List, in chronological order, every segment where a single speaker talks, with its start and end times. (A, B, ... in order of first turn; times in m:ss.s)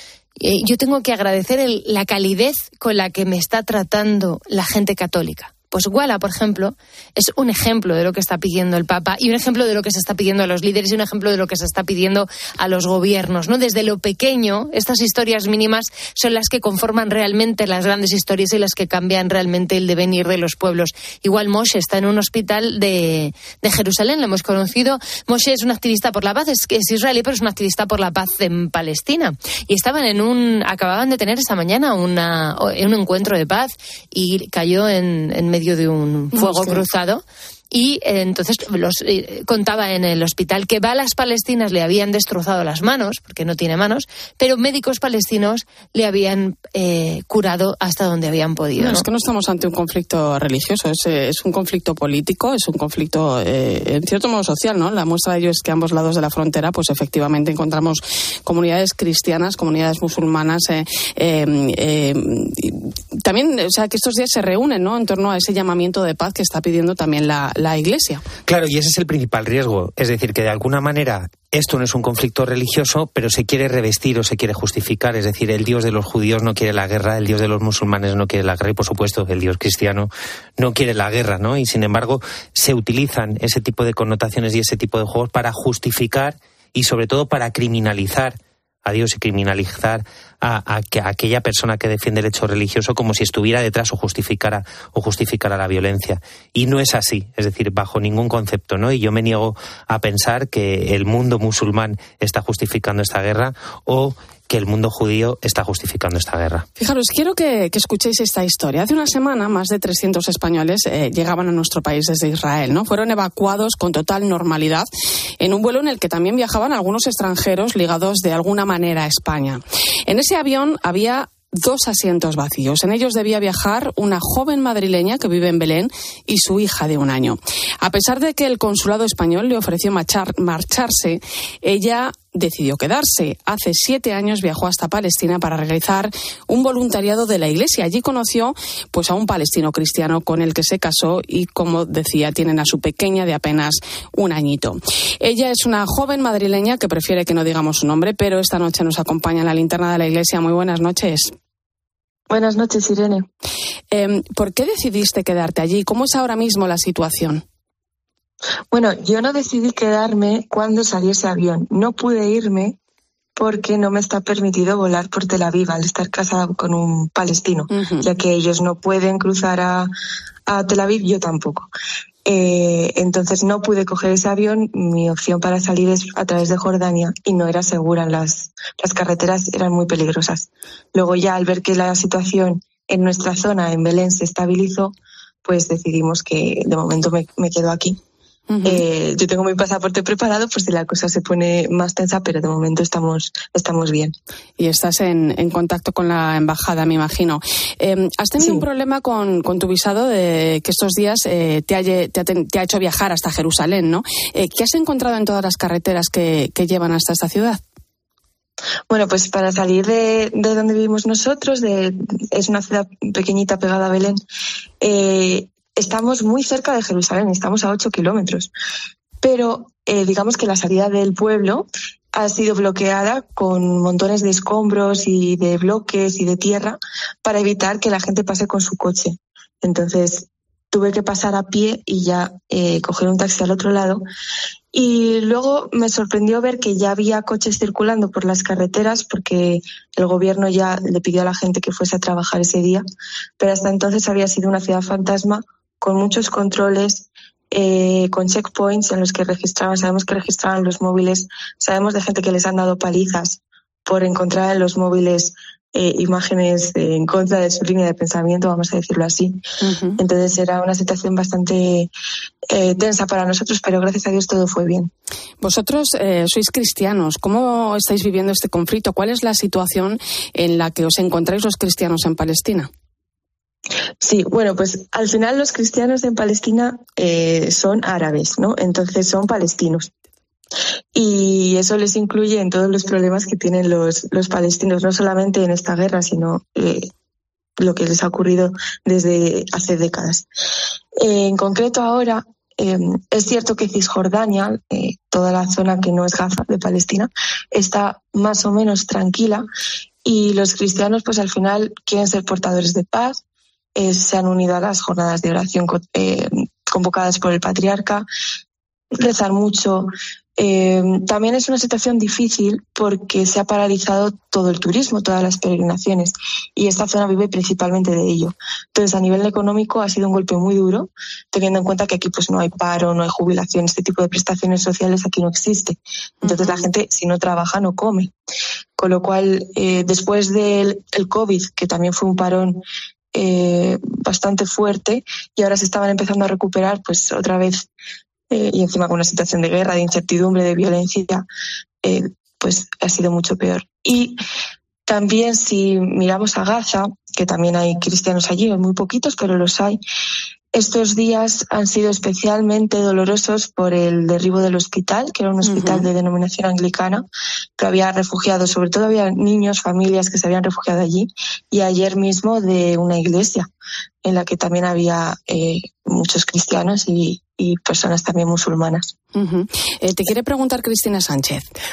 0:00.4-0:49.0 A
0:36.3-0:36.8 B
0:48.8-1:08.2 B
1:08.5-1:46.6 C
1:46.8-1:54.8 B
1:55.4-2:31.3 B
2:32.3-2:33.2 D
2:33.9-2:37.4 B
2:38.7-2:42.8 D
2:43.4-2:49.9 D
2:47.7-2:48.1 B
2:50.5-2:51.7 D
2:52.2-3:04.9 D
3:05.4-3:08.0 D
3:08.5-3:08.8 B
3:08.6-3:14.1 D
3:14.6-3:27.6 B
3:28.9-3:34.2 D
3:34.8-3:38.5 D
3:39.2-3:54.0 D
3:54.7-4:02.8 D
4:03.4-4:19.4 D
4:19.6-4:20.0 B
4:20.0-4:21.9 D
4:22.5-4:24.9 D
4:25.4-4:32.7 B
4:34.0-4:39.9 D
4:40.9-4:46.9 D
4:47.6-4:50.2 D
4:51.0-4:59.4 D
5:00.0-5:03.2 D
5:03.8-5:08.0 D
5:09.0-5:28.1 D
5:26.2-5:26.7 B
5:28.8-5:32.6 D
5:33.1-5:37.6 D
5:38.3-5:41.2 D
5:41.8-5:44.2 D
5:44.9-5:49.8 D
5:50.5-5:57.0 D
5:55.4-5:55.9 B
5:57.6-6:03.5 D
6:04.0-6:08.9 D
6:09.1-6:11.5 B